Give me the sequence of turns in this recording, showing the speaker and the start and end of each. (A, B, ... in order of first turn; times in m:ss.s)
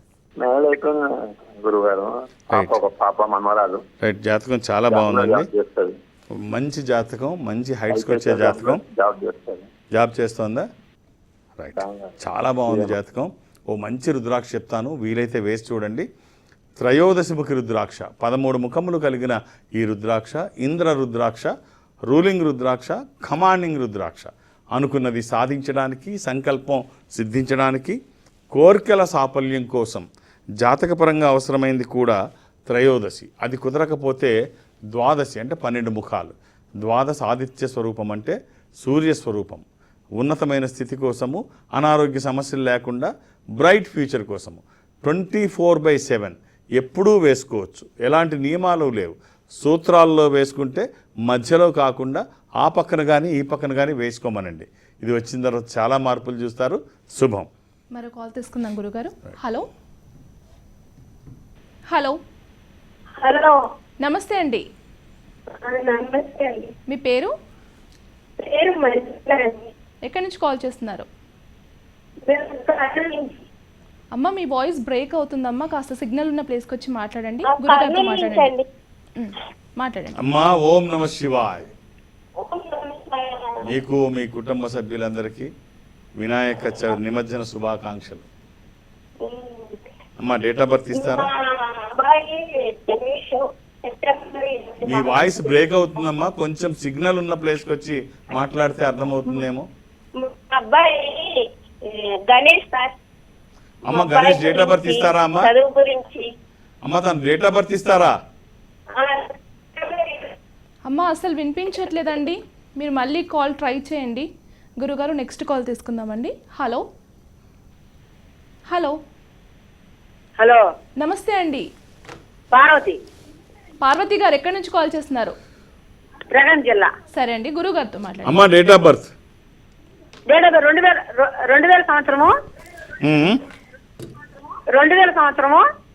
0:00.4-0:03.8 A
0:02.5-0:02.8 B
0:04.0-0:05.5 B
0:04.9-0:05.9 A
0:06.4-0:08.8 B
0:07.9-0:09.7 A
0:10.0-0:10.7 B
0:11.6-0:16.1 B
0:11.8-0:12.2 A
0:12.7-0:12.9 A
0:16.8-0:21.5 B
0:22.1-0:28.0 B
0:28.5-0:34.3 B
0:34.9-0:39.6 B
0:40.2-0:57.5 B
0:57.9-0:59.7 C
1:01.9-1:02.2 C
1:03.2-1:03.5 D
1:04.0-1:04.6 C
1:05.6-1:06.7 D
1:06.9-1:07.3 C
1:08.4-1:09.7 D
1:10.0-1:11.1 C
1:12.3-1:13.3 D
1:14.1-1:18.5 C
1:17.5-1:18.7 D
1:19.2-1:20.2 C
1:20.2-1:21.7 B
1:22.4-1:23.7 D
1:23.6-1:25.5 B
1:26.2-1:28.3 B
1:29.2-1:29.8 D
1:30.2-1:31.3 B
1:30.9-1:35.6 D
1:34.8-1:39.7 B
1:40.2-1:43.0 D
1:43.8-1:45.5 B
1:43.9-1:46.3 D
1:46.8-1:48.1 B
1:48.9-1:50.4 D
1:50.9-1:54.3 C
1:54.8-1:56.8 C
1:58.7-1:59.0 C
2:01.0-2:01.7 C
2:02.5-2:03.0 E
2:03.8-2:05.4 C
2:06.3-2:06.9 E
2:07.1-2:08.4 C
2:08.2-2:09.1 B
2:10.3-2:12.3 E
2:13.0-2:13.4 B
2:14.7-2:15.6 E